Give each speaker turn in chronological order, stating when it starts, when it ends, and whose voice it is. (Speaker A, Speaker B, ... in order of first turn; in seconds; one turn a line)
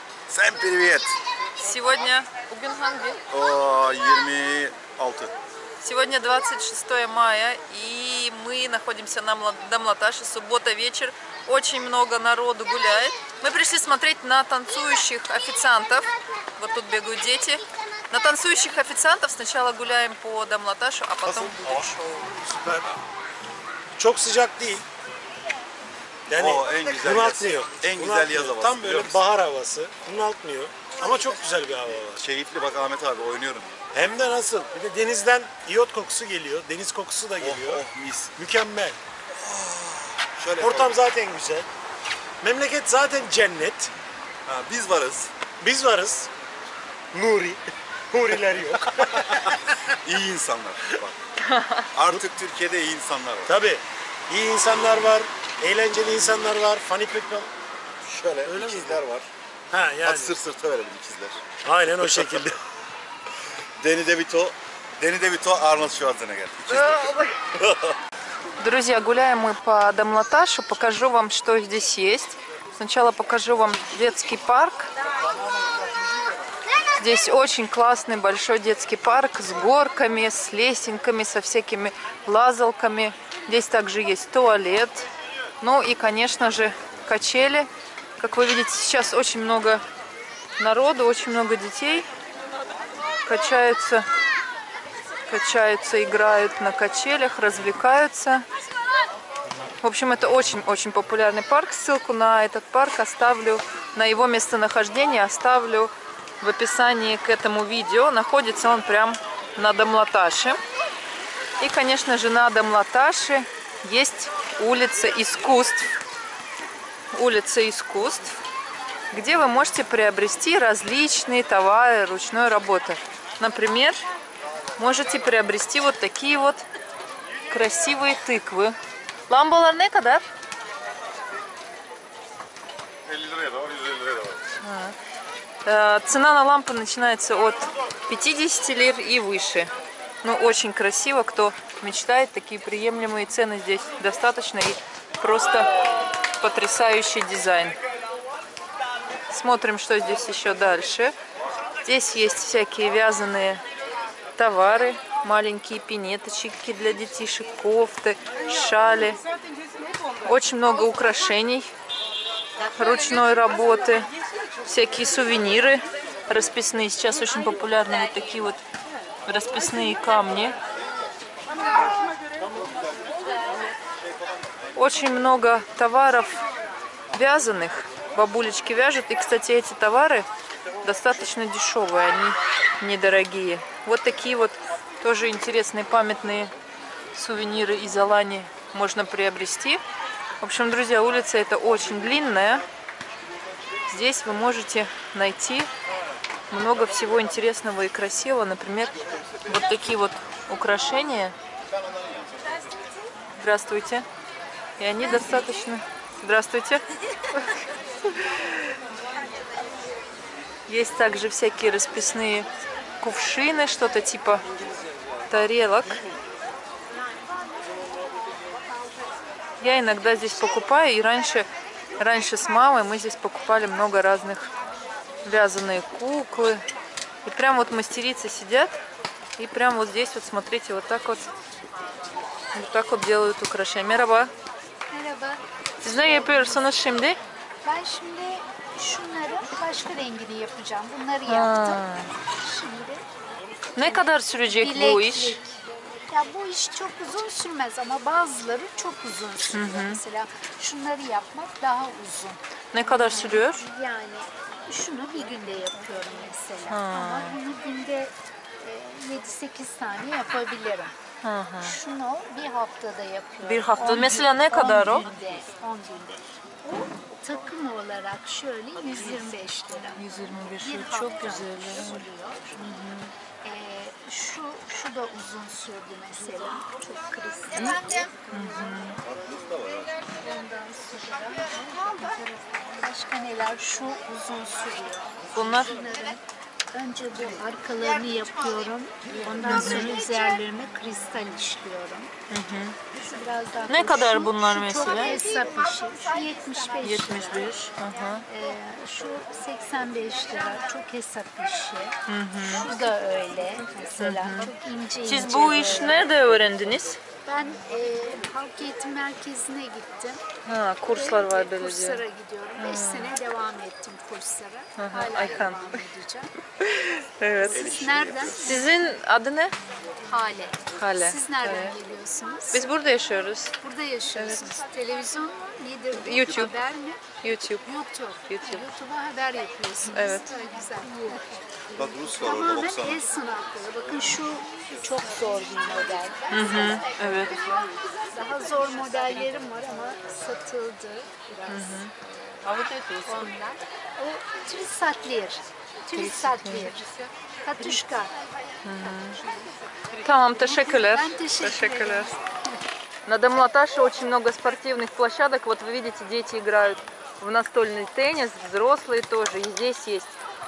Speaker A: 0.3-1.1
Speaker B: 1.6-3.2
Speaker A: 3.3-5.3
Speaker B: 5.8-22.3
Speaker A: 21.2-21.9
Speaker C: 22.5-22.9
Speaker C: 24.0-24.8
Speaker C: 26.3-32.2
Speaker A: 26.3-29.2
Speaker A: 32.1-33.8
Speaker C: 33.9-37.8
Speaker A: 37.4-38.3
Speaker C: 38.4-39.0
Speaker A: 39.4-41.0
Speaker C: 40.6-41.7
Speaker C: 42.4-43.9
Speaker A: 44.5-45.3
Speaker C: 45.6-46.3
Speaker C: 47.1-49.7
Speaker A: 49.9-51.1
Speaker B: 51.4-51.9
Speaker A: 51.9-53.5
Speaker C: 53.5-57.5
Speaker A: 58.0-59.3
Speaker C: 58.4-59.0
Speaker C: 59.7-60.3
Speaker A: 60.0-61.4
Speaker C: 61.6-62.6
Speaker A: 63.8-67.9
Speaker B: 66.7-67.5
Speaker B: 68.6-74.9
Speaker A: 75.4-76.3
Speaker B: 77.0-85.1
Speaker B: 85.6-89.8
Speaker B: 90.6-92.1
Speaker B: 93.2-94.1
Speaker B: 95.3-98.5
Speaker B: 99.8-110.6
Speaker B: 111.6-115.9
Speaker B: 117.1-118.3
Speaker B: 119.1-124.0
Speaker B: 124.8-126.6
Speaker B: 127.5-128.8
Speaker B: 129.3-130.3
Speaker A: 133.1-134.4
Speaker B: 134.6-134.9
Speaker B: 135.6-139.7
Speaker B: 140.2-145.7
Speaker B: 146.4-147.8
Speaker B: 149.3-151.1
Speaker B: 151.8-153.6
Speaker B: 154.3-159.2
Speaker B: 160.2-161.7
Speaker B: 162.7-164.1
Speaker B: 164.6-168.6
Speaker B: 169.2-170.6
Speaker B: 174.8-176.4
Speaker B: 177.1-180.3
Speaker B: 180.8-186.5
Speaker B: 187.1-189.8
Speaker B: 190.4-192.6
Speaker B: 193.9-195.7
Speaker B: 196.5-201.3
Speaker A: 201.7-202.7
Speaker B: 203.3-204.1
Speaker B: 204.8-208.6
Speaker B: 210.7-212.5
Speaker B: 213.0-214.4
Speaker B: 215.3-216.0
Speaker B: 219.6-221.4
Speaker B: 222.0-224.5
Speaker B: 225.2-226.6
Speaker B: 227.2-228.7
Speaker B: 229.4-231.3
Speaker B: 232.5-234.3
Speaker D: 234.9-236.7
Speaker B: 235.8-237.2
Speaker D: 237.6-243.0
Speaker B: 241.2-242.1
Speaker B: 243.7-245.4
Speaker D: 243.8-260.9
Speaker B: 249.5-250.0
Speaker B: 252.7-253.6
Speaker B: 256.7-257.4
Speaker B: 261.2-261.8
Speaker D: 261.6-272.6
Speaker B: 263.4-265.1
Speaker B: 269.9-272.1
Speaker B: 272.6-273.1
Speaker D: 273.4-278.9
Speaker B: 278.3-279.0
Speaker A: 279.0-280.0
Speaker D: 280.0-292.1
Speaker B: 285.3-285.7
Speaker B: 289.1-290.0
Speaker B: 292.3-292.8
Speaker D: 292.9-297.5
Speaker B: 293.7-295.2
Speaker B: 296.8-298.2
Speaker D: 298.2-306.1
Speaker B: 302.1-302.8
Speaker B: 304.0-304.5
Speaker B: 305.0-307.0
Speaker D: 307.2-310.2
Speaker B: 310.4-312.0
Speaker D: 310.9-316.3
Speaker B: 312.6-313.1
Speaker B: 314.8-315.8
Speaker B: 316.6-317.7
Speaker D: 317.4-318.8
Speaker A: 317.5-318.6
Speaker B: 318.4-319.5
Speaker D: 320.0-322.7
Speaker B: 320.7-321.8
Speaker B: 322.5-323.5
Speaker D: 323.6-341.8
Speaker B: 324.1-324.6
Speaker B: 325.9-326.5
Speaker B: 327.2-327.6
Speaker B: 328.3-328.6
Speaker B: 329.9-330.3
Speaker A: 331.7-333.1
Speaker B: 336.3-337.4
Speaker B: 341.5-341.9
Speaker B: 342.5-343.2
Speaker D: 342.5-348.1
Speaker B: 345.9-346.7
Speaker B: 348.6-349.2
Speaker B: 349.9-352.1
Speaker D: 350.3-352.4
Speaker B: 353.1-360.1